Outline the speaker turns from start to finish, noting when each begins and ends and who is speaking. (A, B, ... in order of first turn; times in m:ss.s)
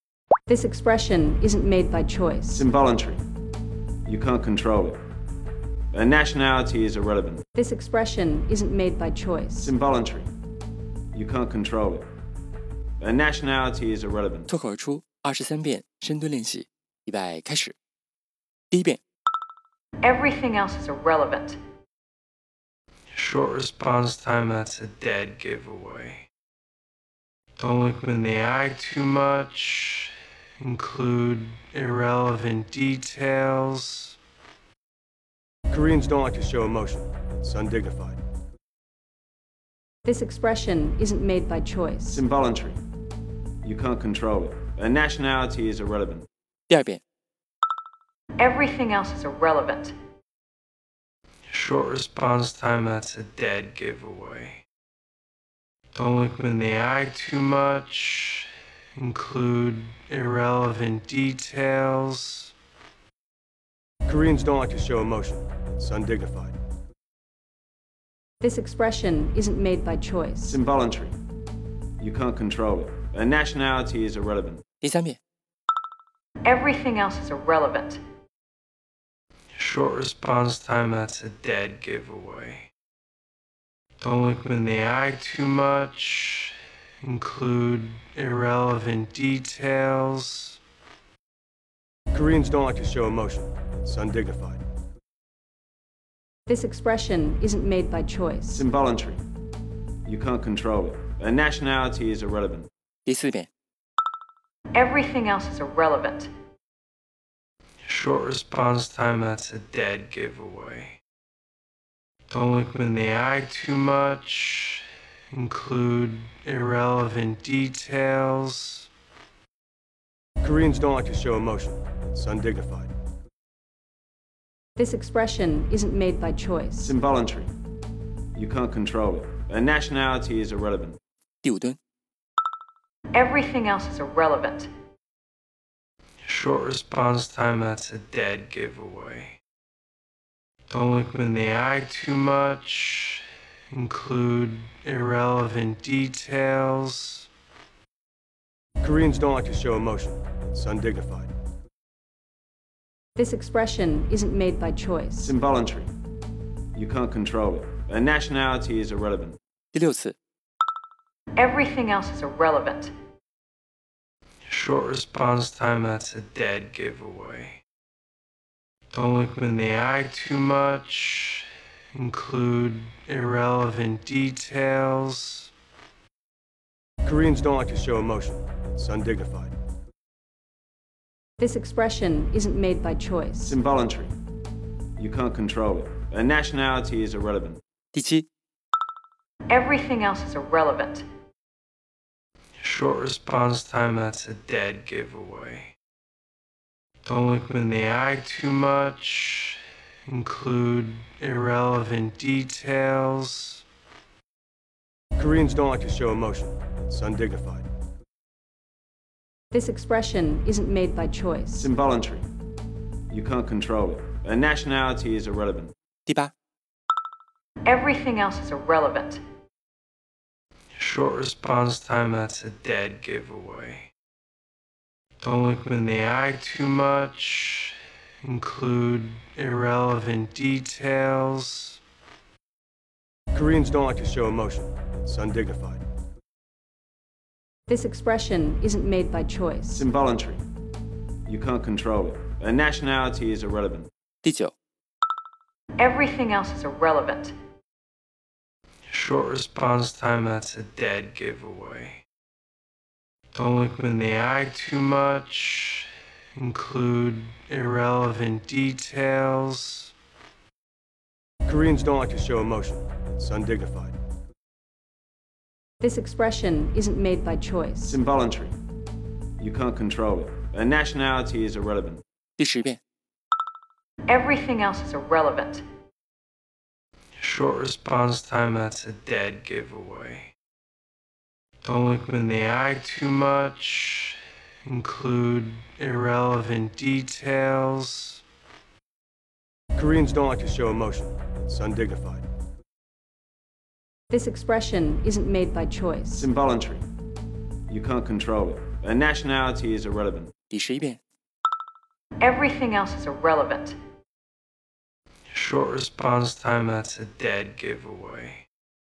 0:00.5-0:02.6 A
0:02.5-0:03.2 B
0:04.1-0:05.0 B
0:05.9-0:07.4 B
0:07.6-0:09.7 A
0:09.6-0:10.3 B
0:11.1-0:12.1 B
0:13.0-0:14.5 B
0:14.5-0:17.8 C
0:18.7-0:19.0 C
0:20.0-0:21.6 D
0:23.1-0:26.3 E
0:27.6-0:34.2 E
0:35.7-0:38.2 F
0:40.1-0:42.2 A
0:42.1-0:42.8 B
0:43.6-0:46.3 B
0:46.7-0:47.0 C
0:48.4-0:49.9 D
0:51.5-0:54.6 E
0:56.0-1:02.5 E
1:04.1-1:06.6 F
1:08.4-1:10.6 A
1:10.5-1:11.2 B
1:12.0-1:14.6 B
1:14.8-1:15.2 C
1:16.4-1:18.0 D
1:19.5-1:22.7 E
1:24.0-1:30.6 E
1:32.1-1:34.6 F
1:36.5-1:38.6 A
1:38.5-1:39.2 B
1:40.1-1:42.7 B
1:43.1-1:43.5 C
1:44.7-1:46.3 D
1:47.8-1:51.0 E
1:52.3-1:58.9 E
2:00.4-2:02.9 F
2:04.8-2:06.9 A
2:06.8-2:07.5 B
2:08.4-2:11.0 B
2:11.4-2:11.8 C
2:13.1-2:14.7 D
2:16.2-2:19.4 E
2:20.7-2:27.3 E
2:28.8-2:31.3 F
2:33.2-2:35.3 A
2:35.2-2:35.9 B
2:36.8-2:39.4 B
2:39.7-2:40.2 C
2:41.3-2:42.9 D
2:44.4-2:47.6 E
2:48.9-2:55.5 E
2:57.0-2:59.5 F
3:01.4-3:03.5 A
3:03.4-3:04.1 B
3:05.0-3:07.6 B
3:07.9-3:08.3 C
3:09.5-3:11.0 D
3:12.6-3:15.7 E
3:17.1-3:23.6 E
3:25.2-3:27.6 F
3:29.5-3:31.7 A
3:31.6-3:32.3 B
3:33.1-3:35.7 B
3:37.6-3:39.2 D
3:40.7-3:43.9 E
3:45.2-3:51.8 E
3:53.3-3:55.8 F
3:57.7-3:59.8 A
3:59.7-4:00.4 B
4:01.3-4:03.9 B
4:04.2-4:04.5 C
4:05.8-4:07.3 D
4:08.9-4:12.0 E
4:13.4-4:19.9 E
4:21.5-4:24.0 F
4:25.8-4:28.0 A
4:27.9-4:28.6 B
4:29.4-4:32.0 B
4:32.4-4:32.8 C
4:34.1-4:35.6 D
4:37.2-4:40.3 E
4:41.6-4:48.2 E
4:49.8-4:52.2 F
4:54.1-4:56.2 A
4:56.2-4:56.8 B
4:57.7-5:00.3 B
5:00.5-5:01.0 C
5:02.2-5:03.8 D
5:05.3-5:08.4 E